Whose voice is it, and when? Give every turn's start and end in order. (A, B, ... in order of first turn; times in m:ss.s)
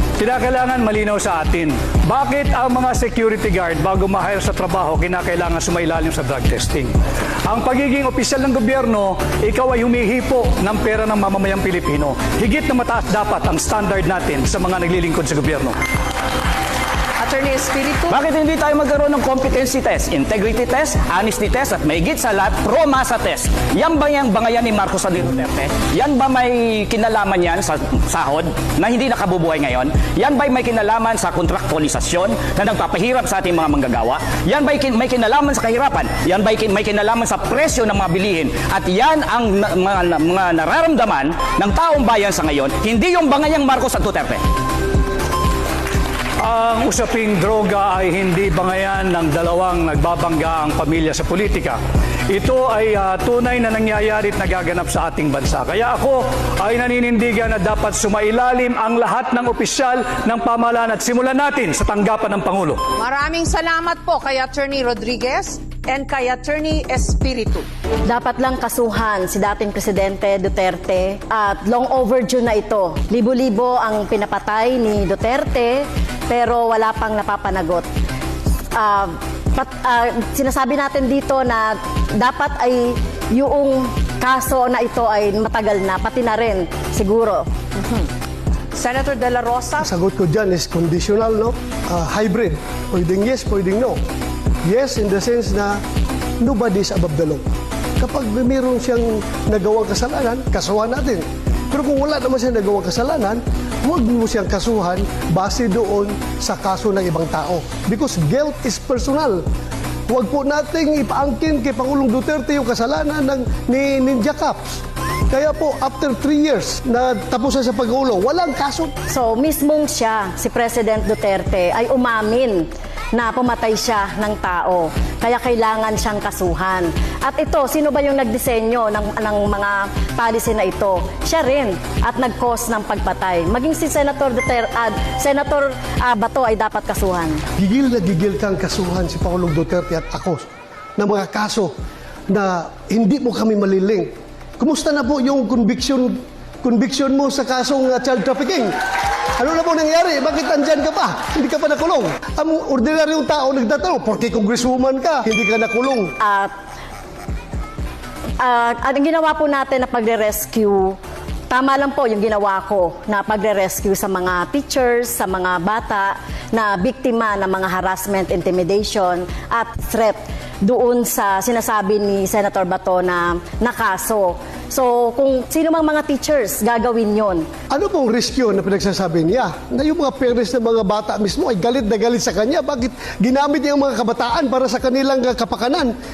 0:00.2-0:06.9 A
0:07.5-0:15.8 A
0:17.2-0:18.1 B
0:18.1-0:44.4 C
0:46.4-0:51.8 A
0:52.3-1:02.9 A
1:03.0-1:07.7 B
1:08.1-1:17.9 D
1:18.8-1:27.5 D
1:27.8-1:28.1 B
1:28.7-1:29.9 B
1:29.8-1:34.0 E
1:34.6-1:35.8 E
1:36.4-1:37.4 E
1:38.0-1:49.4 E
1:50.1-1:58.9 E
1:59.1-2:17.4 D
2:17.6-2:20.4 E
2:21.0-2:21.7 E
2:22.3-2:28.7 E
2:29.4-2:36.2 E
2:36.2-2:36.5 D
2:38.4-2:41.0 D
2:41.5-2:57.5 D
2:57.7-3:05.9 E